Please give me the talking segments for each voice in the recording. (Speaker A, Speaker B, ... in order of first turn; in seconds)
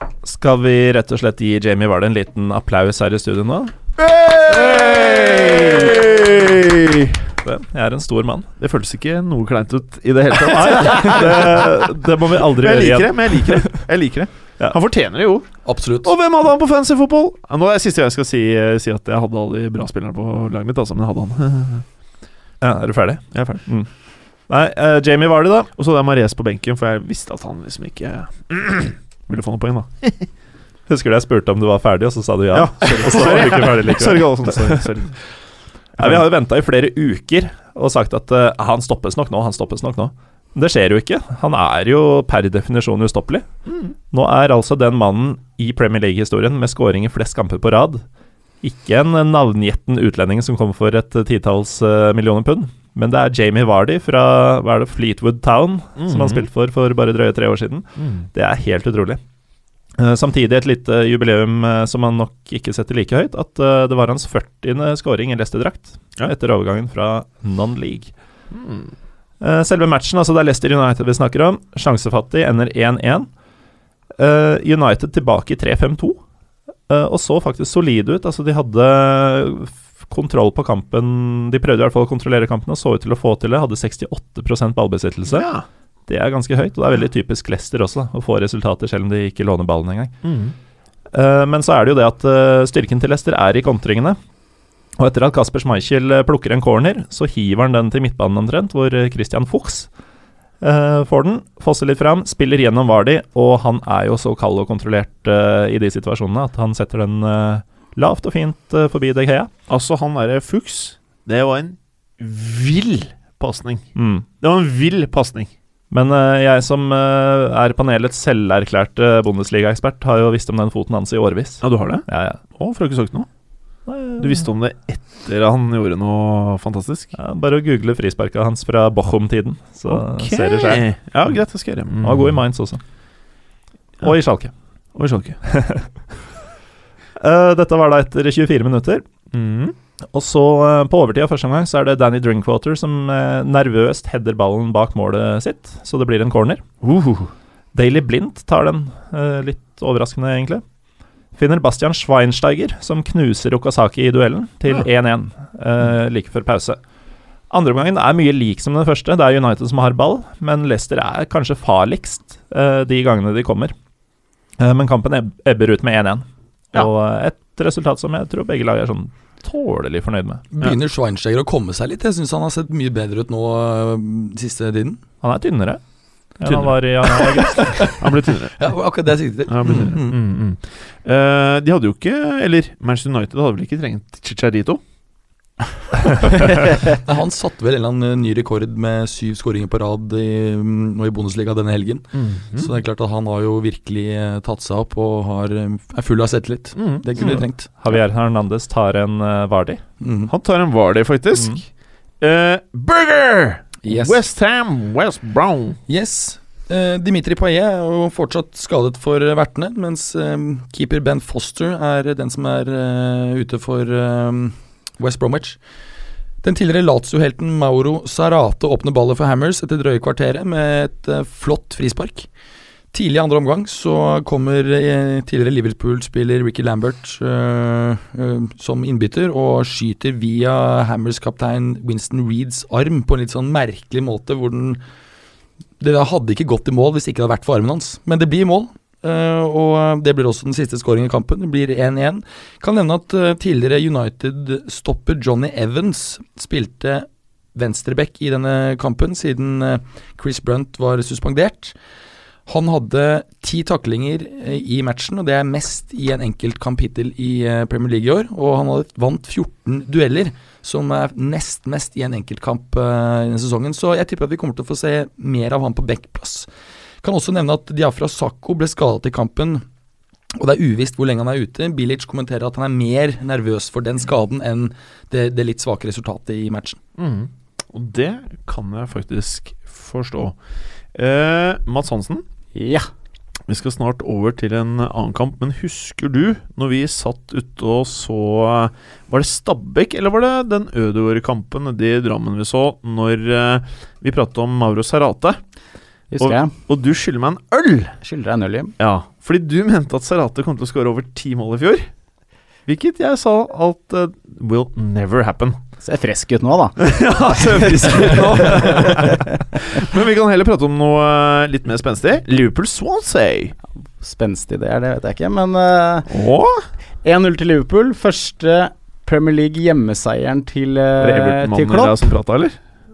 Speaker A: 0.2-3.7, 7.4-8.5, 10.4-13.8, 22.6-23.9, 24.5-25.7, 30.9-34.9, 36.0-43.5, 44.1-48.0, 48.6-59.2, 60.0-68.1, 69.4-73.3, 74.2-76.2, 76.9-85.5, 86.1-90.1, 91.1-94.2, 95.0-99.9, 100.6-109.5, 114.0-114.3, 115.9-122.4, 123.9-124.5, 127.2-130.8, 132.0-132.8, 134.0-134.5, 135.5-135.9, 137.2-139.1, 140.1-146.6, 147.7-150.6, 151.3-156.8, 157.5-163.7, 164.6-170.4, 175.2-175.8, 176.4-178.0, 197.2-199.8
Speaker B: 4.0-7.3, 8.6-11.9, 12.4-15.5, 16.0-21.9, 23.3-23.6, 25.8-30.3, 32.5-35.1, 36.0-36.2, 56.0-56.5, 58.0-58.3, 68.5-68.9, 85.3-85.7, 90.2-90.5, 109.7-113.9, 114.4-115.5, 121.6-123.3, 124.2-127.1, 129.9-132.4, 134.9-135.4, 139.3-139.8, 146.8-147.3, 176.4-176.8, 178.0-178.6, 179.5-184.8, 192.1-192.7, 196.8-197.4, 200.3-201.7, 202.2-205.8, 277.0-280.4, 280.9-282.2, 283.5-295.4, 296.2-297.9, 298.8-301.9, 302.7-305.6, 306.8-313.6, 316.1-316.6, 321.0-322.6
Speaker C: 15.7-16.1, 170.5-175.0, 177.1-177.9, 178.6-180.2, 186.2-197.7, 200.0-200.3, 203.8-204.2, 205.9-215.6, 216.4-222.3, 222.9-234.8, 235.8-251.7, 252.5-266.5, 267.0-269.6, 270.4-276.8
Speaker D: 282.6-282.9, 296.1-296.5, 298.0-298.7, 305.8-309.2, 314.0-316.1, 317.0-322.0